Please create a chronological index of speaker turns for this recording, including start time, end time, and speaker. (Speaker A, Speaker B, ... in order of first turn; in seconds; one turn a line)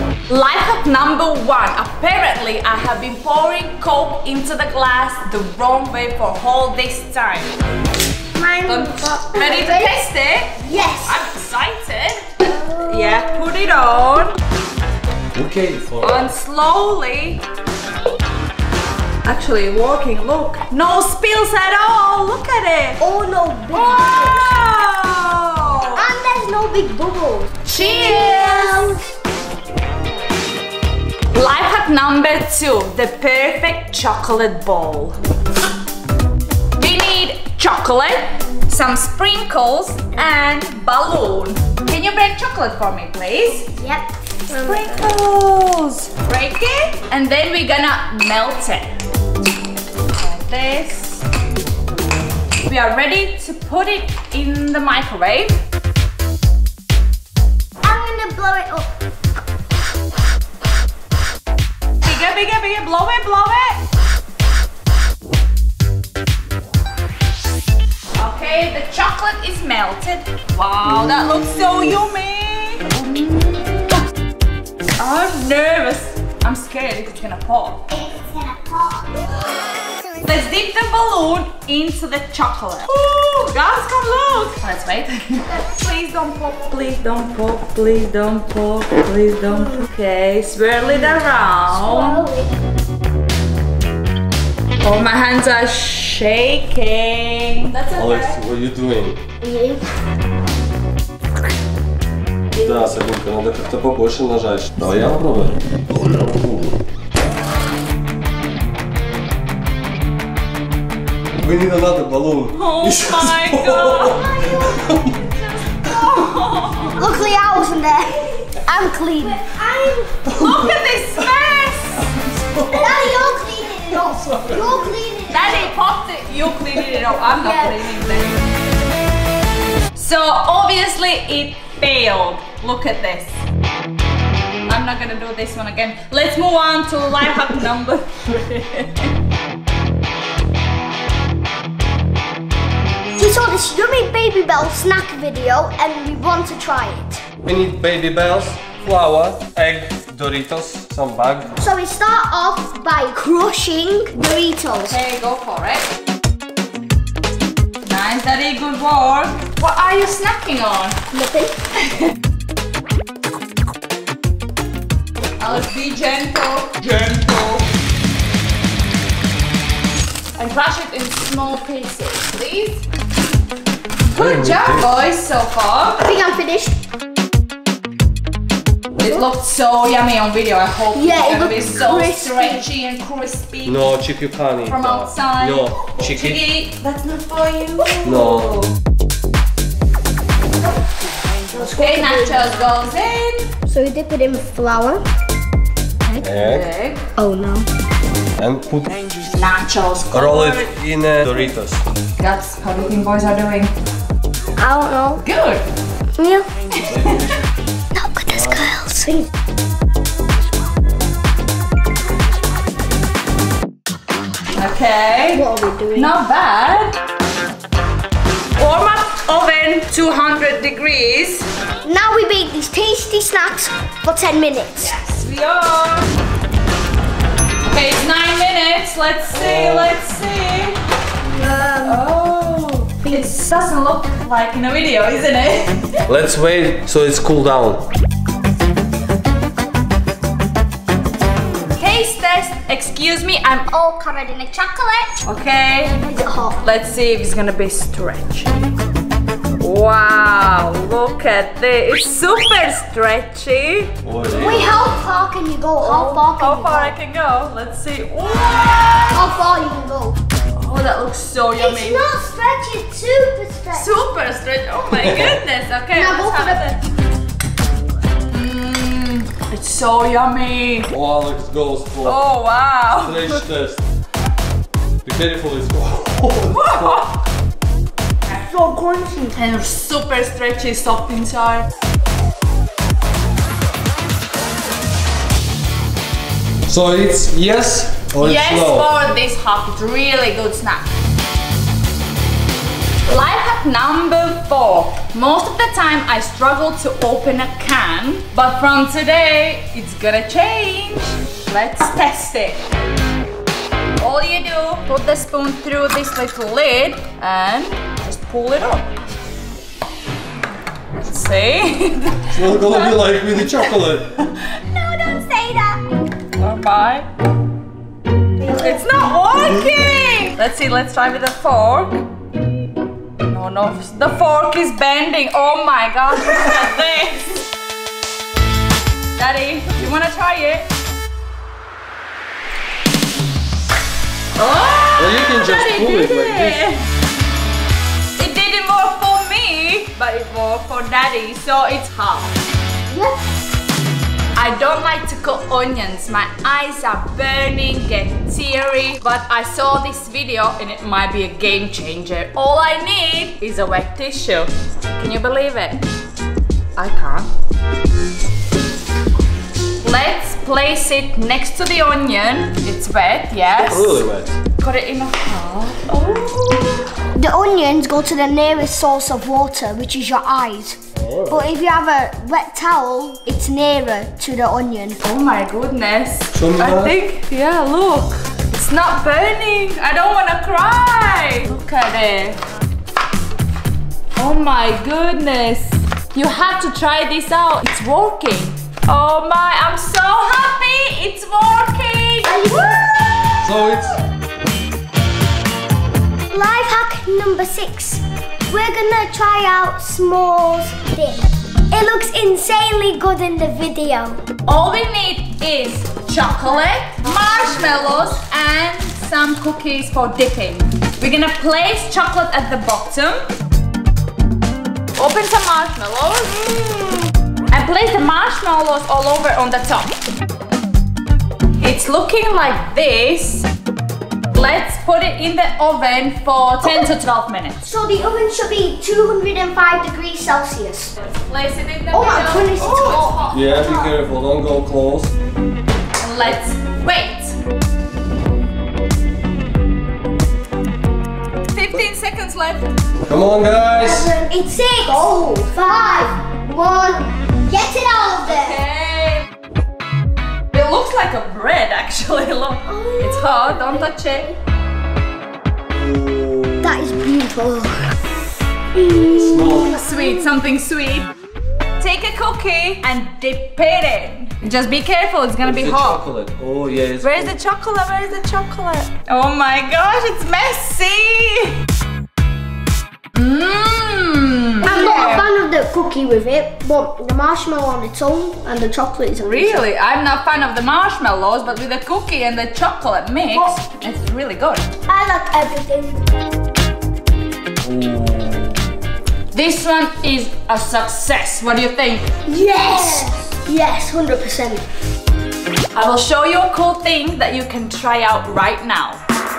Speaker A: 0.3-7.5
Speaker B: 8.3-10.0
Speaker A: 8.7-14.4
Speaker B: 10.6-11.3
Speaker B: 12.4-13.2
Speaker C: 15.3-16.3
Speaker A: 16.0-17.4
Speaker A: 19.2-23.0
Speaker B: 23.0-24.6
Speaker A: 23.7-26.1
Speaker B: 26.0-29.0
Speaker A: 27.7-29.0
Speaker A: 31.3-35.2
Speaker A: 36.8-43.7
Speaker B: 43.7-45.0
Speaker A: 44.5-48.9
Speaker A: 50.2-51.2
Speaker A: 52.6-55.6
Speaker B: 57.8-58.9
Speaker A: 62.0-63.8
Speaker A: 68.2-74.0
Speaker A: 75.0-77.9
Speaker B: 77.9-79.1
Speaker A: 80.2-92.2
Speaker B: 91.7-92.6
Speaker A: 94.8-98.4
Speaker C: 97.9-99.2
Speaker B: 99.4-99.8
Speaker C: 102.6-105.6
Speaker C: 106.1-106.7
Speaker C: 111.4-115.2
Speaker A: 112.5-114.3
Speaker B: 114.1-115.0
Speaker A: 115.8-117.1
Speaker B: 117.0-120.2
Speaker A: 120.3-122.2
Speaker C: 120.3-120.7
Speaker B: 122.7-125.7
Speaker A: 125.3-128.4
Speaker B: 127.3-127.8
Speaker A: 130.0-133.4
Speaker A: 134.7-139.1
Speaker B: 143.2-147.2
Speaker C: 147.4-151.6
Speaker B: 151.6-155.0
Speaker A: 154.9-155.9
Speaker A: 157.8-161.0
Speaker B: 161.1-161.6
Speaker A: 165.4-167.6
Speaker A: 170.4-172.8
Speaker A: 174.1-176.1
Speaker C: 174.2-174.9
Speaker B: 176.0-176.8
Speaker A: 179.0-183.8
Speaker B: 180.9-182.7
Speaker C: 183.7-186.4
Speaker A: 184.7-188.6
Speaker C: 188.0-188.6
Speaker B: 191.5-192.5
Speaker A: 191.6-193.5
Speaker B: 193.7-195.0
Speaker A: 196.2-197.1
Speaker C: 196.2-196.7
Speaker B: 197.2-197.7
Speaker C: 198.4-198.9
Speaker A: 199.3-200.7
Speaker C: 200.1-201.8
Speaker A: 202.2-203.7
Speaker B: 204.6-205.2
Speaker A: 205.2-205.6
Speaker B: 206.2-206.5
Speaker C: 206.9-207.4
Speaker B: 207.9-209.3
Speaker C: 208.3-208.6
Speaker A: 214.6-215.4
Speaker B: 215.3-216.1
Speaker A: 215.9-216.9
Speaker A: 218.6-221.5
Speaker B: 221.8-224.9
Speaker A: 224.8-226.1
Speaker A: 227.6-230.8
Speaker C: 229.3-229.9
Speaker B: 231.3-232.0
Speaker A: 231.8-236.0
Speaker C: 236.1-237.9
Speaker A: 241.8-243.7
Speaker B: 243.7-245.1
Speaker A: 245.3-246.0
Speaker B: 246.1-246.6
Speaker A: 246.6-248.6
Speaker A: 249.6-253.9
Speaker C: 254.0-254.7
Speaker B: 254.3-256.9
Speaker A: 255.8-259.2
Speaker B: 259.1-260.2
Speaker A: 260.6-262.1
Speaker B: 261.6-263.9
Speaker A: 263.7-266.8
Speaker C: 264.9-265.4
Speaker B: 265.9-266.7
Speaker A: 268.3-270.9
Speaker C: 270.9-272.2
Speaker A: 272.1-273.2
Speaker C: 273.0-273.8
Speaker C: 275.1-277.1
Speaker A: 276.5-277.2
Speaker B: 278.3-279.4
Speaker A: 279.3-281.7
Speaker C: 286.7-288.9
Speaker A: 288.2-290.9
Speaker A: 293.1-302.6
Speaker A: 304.0-308.9
Speaker A: 310.9-312.9
Speaker C: 312.3-314.1
Speaker B: 314.7-315.9
Speaker A: 316.4-317.1
Speaker B: 318.4-318.9
Speaker A: 318.5-322.0
Speaker A: 323.2-327.4
Speaker A: 329.2-330.7
Speaker A: 334.4-336.8
Speaker C: 335.0-336.6
Speaker A: 338.2-342.3
Speaker B: 342.9-343.2
Speaker A: 344.4-355.8
Speaker A: 356.8-357.3
Speaker A: 359.8-364.0
Speaker C: 363.6-364.4
Speaker A: 364.6-366.9
Speaker B: 367.1-375.0
Speaker C: 371.0-371.5
Speaker A: 375.0-382.4
Speaker C: 376.3-376.9
Speaker A: 384.2-392.4
Speaker B: 392.2-393.0
Speaker C: 393.4-393.9
Speaker B: 396.3-404.2
Speaker A: 404.5-413.3
Speaker B: 407.0-408.2
Speaker A: 415.0-419.9
Speaker A: 421.6-423.5
Speaker A: 424.3-427.7
Speaker B: 427.6-430.9
Speaker A: 431.0-433.6
Speaker B: 431.9-433.9
Speaker C: 433.3-435.1
Speaker A: 436.0-437.4
Speaker A: 441.5-442.7
Speaker C: 443.1-444.1
Speaker B: 443.8-448.6
Speaker A: 448.3-449.3
Speaker A: 450.5-454.3
Speaker B: 452.6-454.4
Speaker C: 455.7-457.1
Speaker B: 456.6-457.9
Speaker B: 458.7-460.2
Speaker C: 459.2-459.7
Speaker A: 459.7-461.1
Speaker A: 461.8-466.0
Speaker C: 465.4-467.4
Speaker A: 467.0-471.6
Speaker A: 473.1-475.3
Speaker B: 474.6-479.6
Speaker A: 479.2-484.7
Speaker B: 483.3-483.6
Speaker B: 484.9-486.1
Speaker C: 487.6-488.6
Speaker A: 489.3-492.1
Speaker B: 492.3-494.6
Speaker A: 495.8-499.0